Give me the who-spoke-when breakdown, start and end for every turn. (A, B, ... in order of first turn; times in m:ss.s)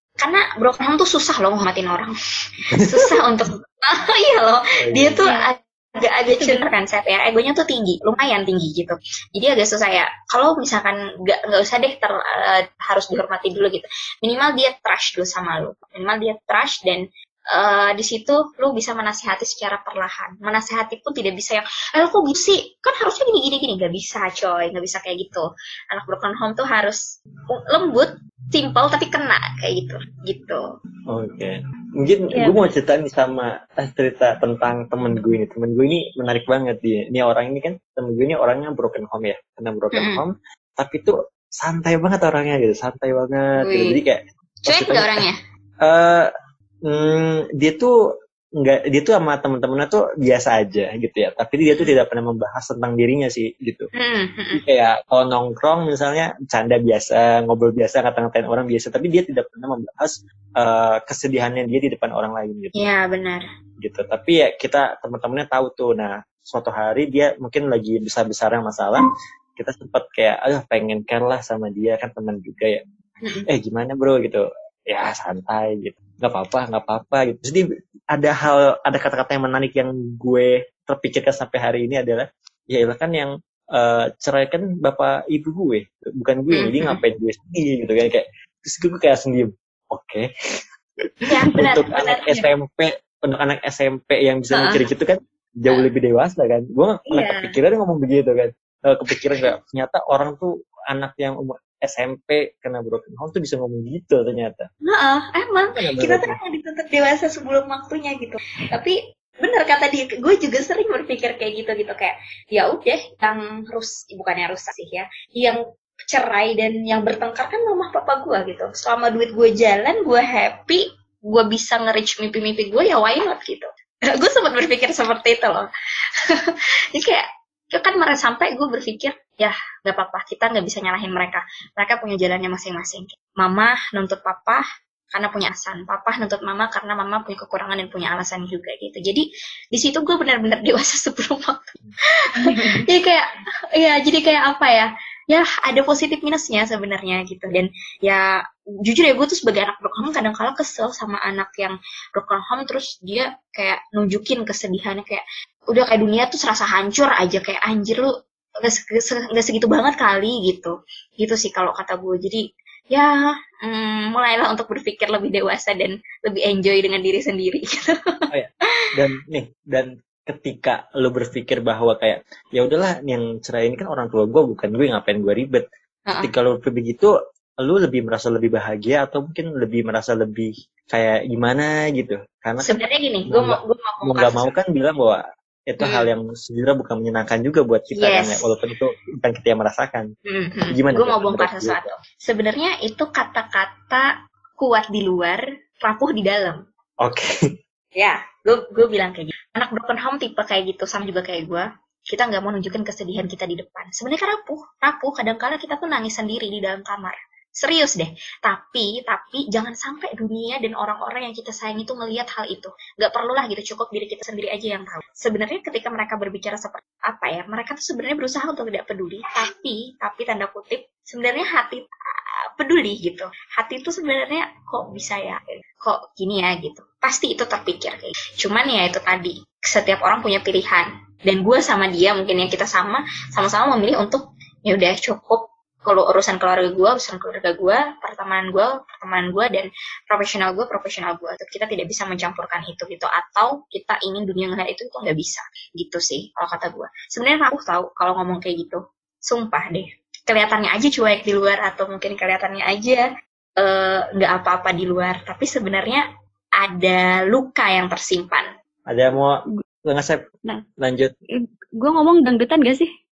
0:00.2-0:27.0 A
0:02.8-0:03.1 B
0:04.8-0:05.2 B
0:05.2-0:05.5 C
0:06.3-0:06.6 C
0:27.5-0:30.6 A
0:31.1-0:45.2 B
0:32.3-0:32.6 C
0:40.0-0:40.2 A
0:43.6-0:44.0 A
0:44.7-0:45.4 A
0:45.8-0:46.3 B
0:46.9-0:47.9 B
0:48.6-0:53.9 B
0:54.0-0:54.6 A
0:54.5-1:02.8 B
1:02.8-1:03.4 A
1:03.8-1:12.8 B
1:13.2-1:13.5 A
1:13.5-1:30.3 B
1:26.6-1:27.0 A
1:31.0-1:44.7 B
1:31.3-1:32.5 A
1:34.5-1:34.8 A
1:37.1-1:37.6 A
1:44.8-2:05.7 A
1:45.8-1:46.4 B
2:06.3-2:14.6 A
2:15.1-2:21.8 A
2:22.4-2:22.8 C
2:22.4-2:28.3 A
2:28.8-2:38.1 A
2:38.6-2:48.2 A
2:48.3-2:55.6 B
2:56.1-2:56.3 A
2:56.2-3:10.1 B
3:02.6-3:04.5 A
3:05.8-3:06.1 A
3:08.0-3:08.4 A
3:10.3-3:16.6 A
3:10.7-3:11.8 B
3:17.0-3:17.3 B
3:18.0-3:41.9 A
3:42.6-4:13.0 A
4:13.6-4:16.0 A
4:16.6-4:18.5 A
4:18.9-4:20.2 B
4:20.8-4:21.1 B
4:21.8-4:22.9 C